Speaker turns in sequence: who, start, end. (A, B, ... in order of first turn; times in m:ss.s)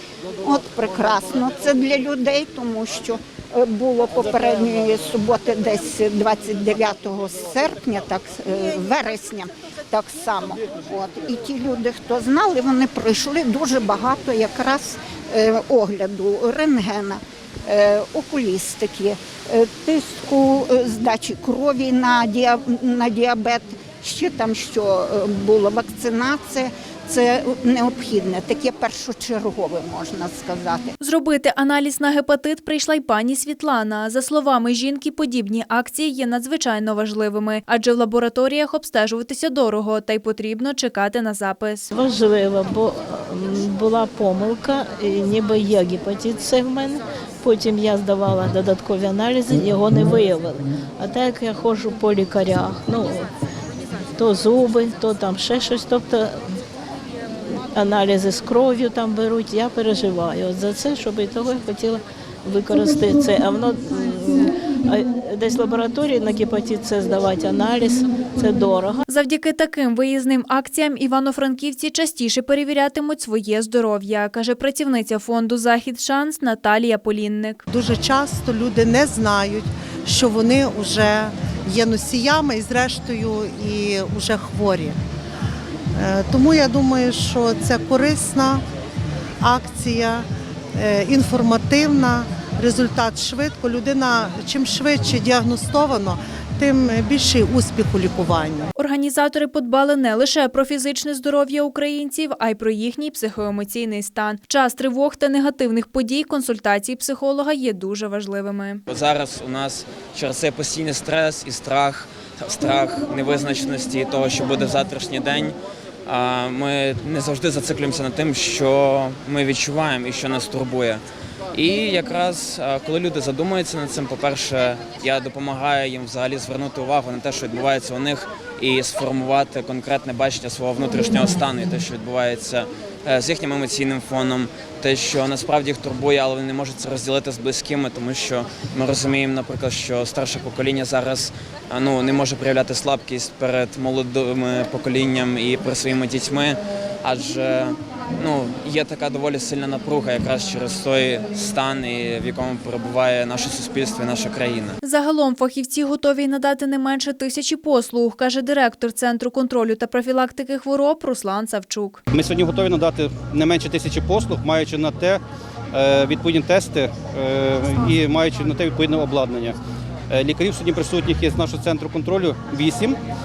0:00.4-0:30.9 A
0:31.0-0:41.9 B
0:41.9-0:53.3 C
0:54.2-0:56.6 C
0:57.5-1:09.0 C
1:09.1-1:17.6 B
1:17.7-1:25.0 D
1:26.0-1:28.6 D
1:29.4-1:38.7 D
1:38.8-1:48.8 B
1:48.9-2:34.8 E
2:34.8-2:42.0 B
2:42.1-2:45.2 F
2:45.7-2:49.6 F
2:50.1-2:53.0 F